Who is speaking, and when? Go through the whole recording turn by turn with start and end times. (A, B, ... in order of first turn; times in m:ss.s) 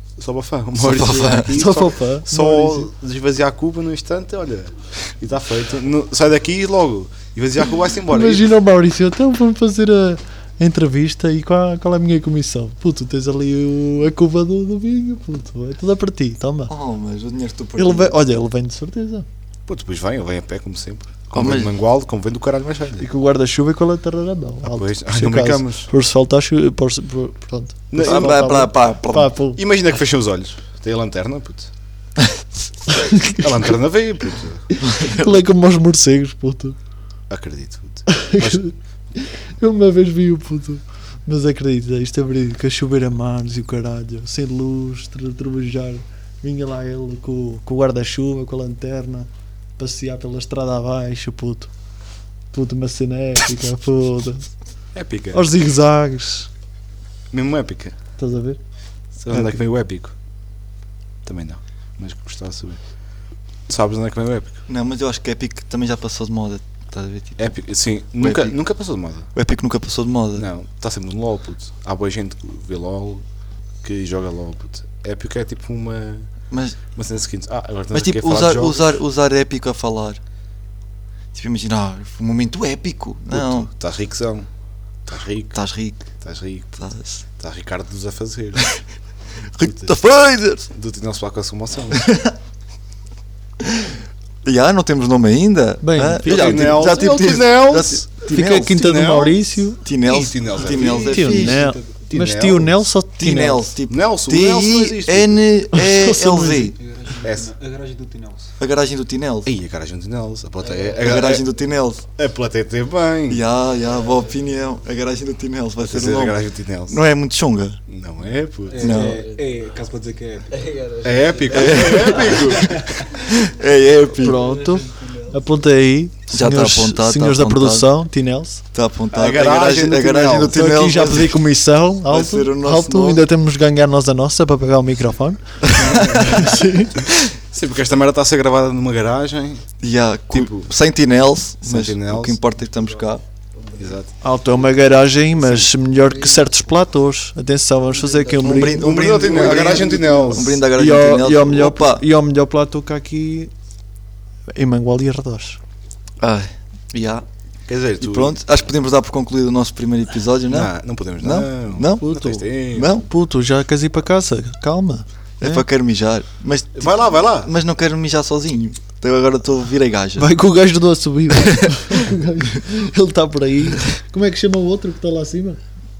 0:00.2-0:08.5 A
0:00.8-0:01.6 B
0:01.3-0:02.9 C
0:08.1-0:16.7 C
0:16.7-0:18.1 B
0:17.8-0:19.2 C
0:19.7-0:23.1 A
0:21.3-0:21.7 B
0:23.0-0:29.6 C
0:24.6-0:25.9 A
0:27.9-0:28.4 A
0:28.0-0:29.3 B
0:29.6-0:31.7 A
0:32.9-0:33.6 C
0:33.4-0:34.6 A
0:34.8-0:35.4 B
0:35.0-0:36.8 C
0:37.3-0:38.6 A
0:38.1-0:51.7 C
0:52.5-0:54.5 C
0:54.9-0:55.4 A
0:55.3-0:56.5 C
0:57.3-0:57.9 A
0:58.2-0:58.6 C
0:59.2-1:00.1 A
0:59.3-0:59.6 C
1:01.2-1:02.8 A
1:03.7-1:04.6 A
1:04.7-1:07.5 B
1:07.4-1:09.3 A
1:08.2-1:08.6 B
1:09.3-1:10.5 B
1:10.4-1:13.2 A
1:13.8-1:16.3 A
1:16.5-1:16.8 B
1:16.9-1:19.0 A
1:17.9-1:20.2 B
1:21.3-1:23.7 B
1:23.3-1:24.5 A
1:25.1-1:25.5 A
1:25.5-1:26.0 B
1:26.2-1:26.7 A
1:26.8-1:27.2 B
1:27.4-1:28.8 A
1:29.5-1:30.7 B
1:29.6-1:29.9 A
1:30.7-1:32.1 A
1:31.9-1:32.4 B
1:33.6-1:38.8 B
1:35.8-1:36.8 C
1:36.2-1:38.1 A
1:38.3-1:39.8 C
1:38.7-1:39.4 A
1:39.8-1:41.6 B
1:40.0-1:42.8 A
1:40.7-1:42.0 D
1:41.0-1:43.7 C
1:43.2-1:46.8 B
1:43.9-1:45.4 A
1:45.7-1:46.7 C
1:46.8-1:48.5 D
1:47.2-1:47.5 A
1:48.6-1:49.5 B
1:49.4-1:51.4 A
1:50.6-1:51.2 D
1:51.0-1:52.0 B
1:52.2-1:53.4 A
1:53.3-1:57.8 B
1:55.8-1:57.0 A
1:57.9-1:59.1 A
1:58.7-2:03.1 D
1:58.8-1:59.2 B
2:01.0-2:03.1 A
2:01.5-2:04.4 B
2:04.2-2:08.6 C
2:06.3-2:07.9 B
2:08.7-2:11.4 B
2:09.1-2:10.6 A
2:10.5-2:16.9 C
2:12.1-2:13.2 B
2:15.6-2:16.5 B
2:15.7-2:19.6 A
2:19.8-2:23.2 B
2:20.3-2:20.7 A
2:21.6-2:22.4 A
2:23.6-2:24.0 D
2:23.8-2:24.1 A
2:24.2-2:28.8 C
2:28.4-2:32.0 B
2:28.4-2:30.6 D
2:28.7-2:30.6 A
2:30.7-2:33.5 C
2:34.5-2:35.6 C
2:36.2-2:37.2 B
2:37.7-2:38.4 A
2:38.0-2:43.1 B
2:40.5-2:43.0 A
2:43.0-2:45.6 C
2:45.4-2:50.3 B
2:46.7-2:47.5 A
2:50.2-2:55.6 C
2:51.3-2:52.0 B